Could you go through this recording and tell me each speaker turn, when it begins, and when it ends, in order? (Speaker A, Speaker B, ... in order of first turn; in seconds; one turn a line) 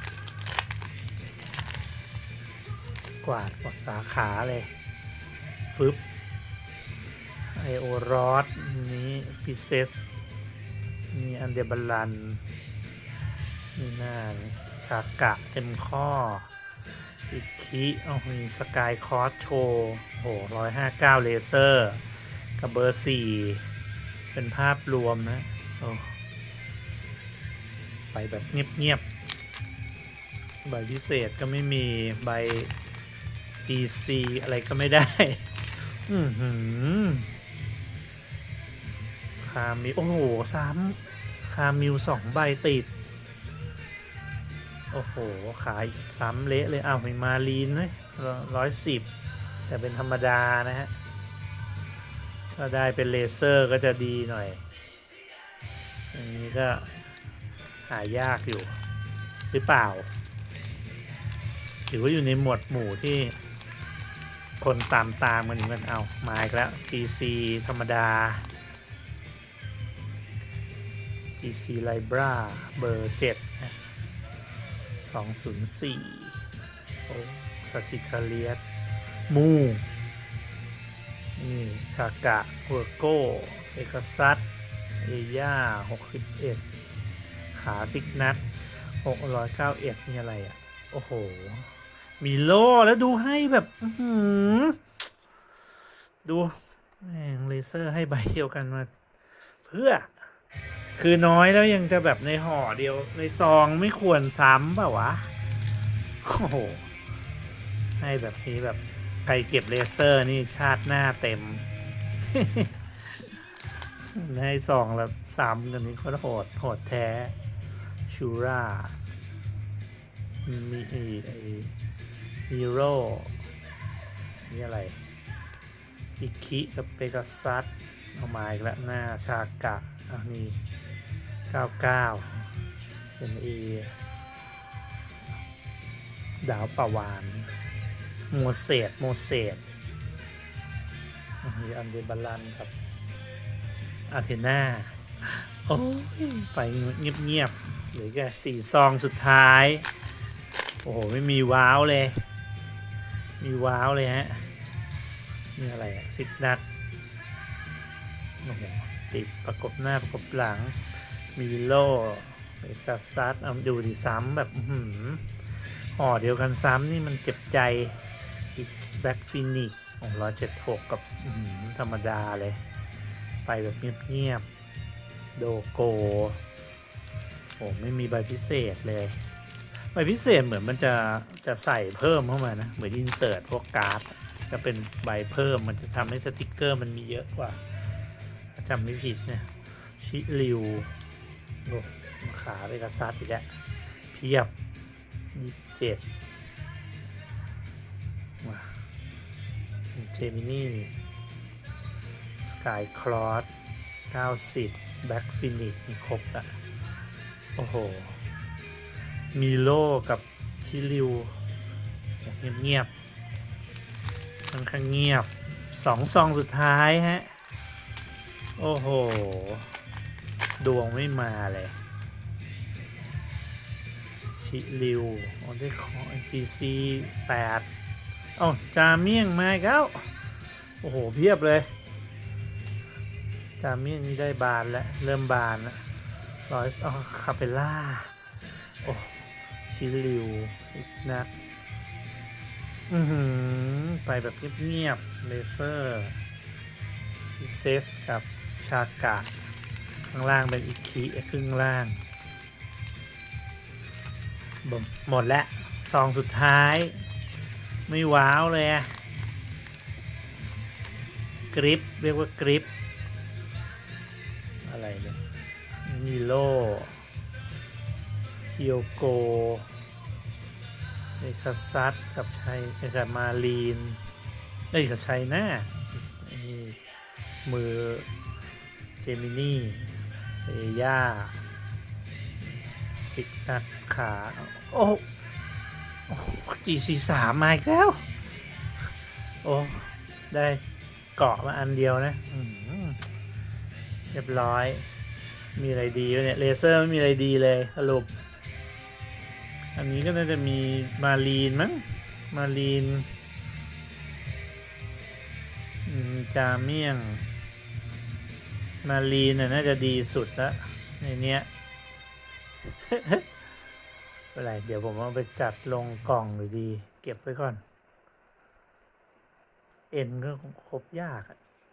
Speaker A: 3.2-4.7
Speaker A: 5.7-6.0
Speaker A: 7.5-10.1
Speaker A: 11.1-12.4
Speaker A: 13.8-16.5
Speaker A: 17.3-22.0
Speaker A: 22.6-23.6
Speaker A: 24.3-26.1
Speaker A: 28.1-29.1
Speaker A: 30.6-32.7
Speaker A: 33.6-37.3
Speaker A: 39.4-42.9
Speaker A: 44.9-49.1
Speaker A: 49.7-50.9
Speaker A: 52.5-54.6
Speaker A: 56.1-57.0
Speaker A: 57.9-58.8
Speaker A: 59.5-60.1
Speaker A: 61.9-63.4
Speaker A: 64.6-68.5
Speaker A: 71.4-73.8
Speaker A: 75.0-76.4
Speaker A: 77.1-78.6
Speaker A: 79.3-79.8
Speaker A: 81.4-84.5
Speaker A: 85.0-86.6
Speaker A: 87.5-88.4
Speaker A: 89.0-94.8
Speaker A: 96.2-98.9
Speaker A: 99.6-100.2
Speaker A: 101.0-105.3
Speaker A: 106.2-106.9
Speaker A: 108.0-111.7
Speaker A: 112.3-113.3
Speaker A: 114.1-117.3
Speaker A: 118.0-119.0
Speaker A: 120.5-121.7
Speaker A: 122.5-123.3
Speaker A: 124.4-125.0
Speaker A: 126.2-130.6
Speaker A: 131.5-132.5
Speaker A: 133.2-133.9
Speaker A: 136.4-137.5
Speaker A: 138.3-139.6
Speaker A: 141.4-142.7
Speaker A: 144.1-149.9
Speaker A: 150.8-152.2
Speaker A: 153.4-154.5
Speaker A: 155.6-156.6
Speaker A: 158.4-160.8
Speaker A: 161.3-165.3
Speaker A: 165.9-168.0
Speaker A: 168.6-172.6
Speaker A: 173.4-174.5
Speaker A: 175.3-176.4
Speaker A: 177.6-179.2
Speaker A: 179.9-187.6
Speaker A: 188.6-190.9
Speaker A: 191.7-193.5
Speaker A: 194.1-194.5
Speaker A: 195.3-196.0
Speaker A: 198.4-198.8
Speaker A: 199.9-201.0
Speaker A: 202.4-203.5
Speaker A: 204.1-206.6
Speaker A: 207.6-208.2
Speaker A: 209.3-211.3
Speaker A: 212.2-212.9
Speaker A: 214.5-217.3
Speaker A: 218.6-219.7
Speaker A: 220.6-221.8
Speaker A: 224.4-227.7
Speaker A: 228.4-230.1
Speaker A: 230.8-231.7
Speaker A: 233.6-235.8
Speaker A: 236.5-238.1
Speaker A: 238.8-241.3
Speaker A: 242.9-246.2
Speaker A: 247.4-249.3
Speaker A: 250.1-252.0
Speaker A: 254.6-257.0
Speaker A: 257.9-258.9
Speaker A: 261.5-262.7
Speaker A: 264.6-265.2
Speaker A: 265.8-267.0
Speaker A: 268.6-269.7
Speaker A: 271.2-274.0
Speaker A: 274.7-276.8
Speaker A: 277.4-278.1
Speaker A: 279.0-281.4
Speaker A: 283.0-285.1
Speaker A: 286.1-288.0
Speaker A: 289.4-290.6
Speaker A: 291.2-293.0
Speaker A: 294.1-294.9
Speaker A: 295.6-298.1
Speaker A: 299.8-303.1
Speaker A: 305.9-307.3
Speaker A: 308.8-311.5
Speaker A: 312.7-313.2
Speaker A: 314.3-317.6
Speaker A: 319.9-321.4